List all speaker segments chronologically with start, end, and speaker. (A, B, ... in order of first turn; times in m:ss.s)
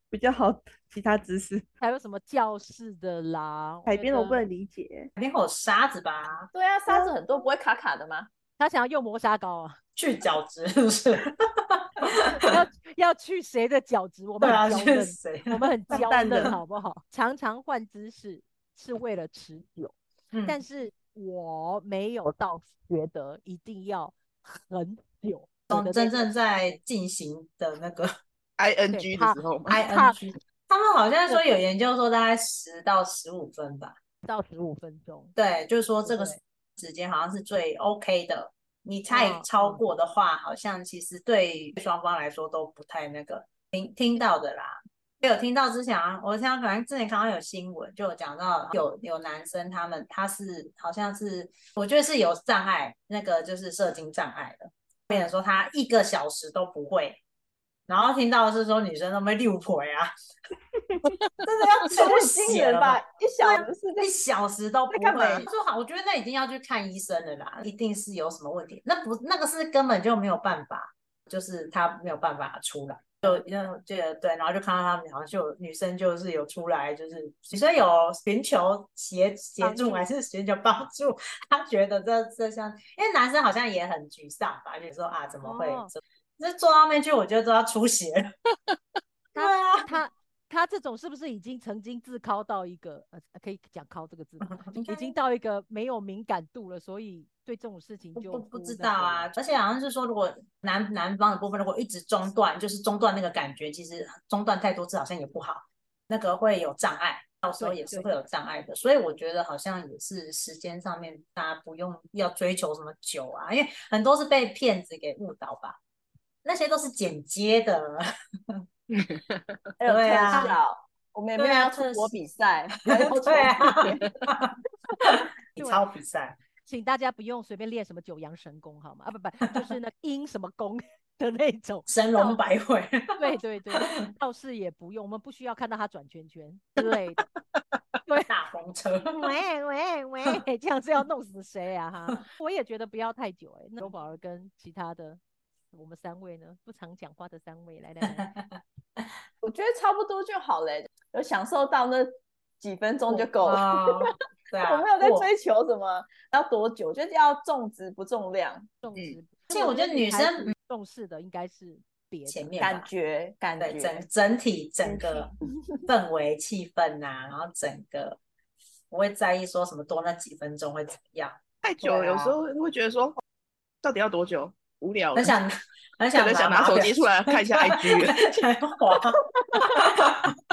0:00.1-0:01.6 A
0:01.8-0:04.4 B
0:03.9-0:05.1 A
0:05.2-0:06.5 C
0:06.5-0:08.3 D
0:06.9-0:07.5 A
0:08.6-0:09.8 B
0:10.0-0:12.3 C
0:12.1-0:26.7 B
0:14.4-0:16.0 C
0:15.9-0:16.6 A
0:20.3-0:20.6 C
0:25.7-0:28.1 C
0:28.6-0:29.8 E
0:28.9-0:30.2 B
0:29.7-0:34.0 C
0:34.2-0:35.3 B
0:35.4-0:57.2 C
0:36.0-0:36.4 B
0:39.1-0:39.8 B
0:57.9-1:00.1 C
1:01.4-1:28.3 C
1:01.9-1:04.1 D
1:04.9-1:05.5 D
1:19.6-1:20.0 B
1:25.4-1:25.9 B
1:29.3-1:39.3 B
1:29.3-1:30.0 C
1:34.6-1:35.2 C
1:38.2-1:55.8 C
1:47.6-1:48.1 B
1:56.4-1:58.6 C
1:58.9-1:59.4 E
1:59.8-2:04.1 D
1:59.8-2:00.5 C
2:01.4-2:02.2 C
2:02.9-2:06.4 C
2:03.1-2:03.5 B
2:05.6-2:05.9 B
2:06.6-2:12.4 B
2:11.9-2:13.2 C
2:13.2-2:17.2 B
2:18.3-2:19.2 C
2:19.0-2:25.2 B
2:25.7-2:28.3 B
2:28.0-2:28.4 C
2:29.4-2:34.1 D
2:33.4-2:35.3 C
2:34.6-2:38.7 D
2:38.8-2:42.6 B
2:39.5-2:40.5 C
2:42.3-2:42.9 C
2:42.6-2:44.0 D
2:43.6-2:45.3 C
2:44.8-2:45.4 A
2:45.9-2:48.2 C
2:48.9-2:52.4 C
2:51.6-2:53.2 E
2:53.8-2:55.3 E
2:55.1-3:00.2 C
2:56.2-2:58.2 E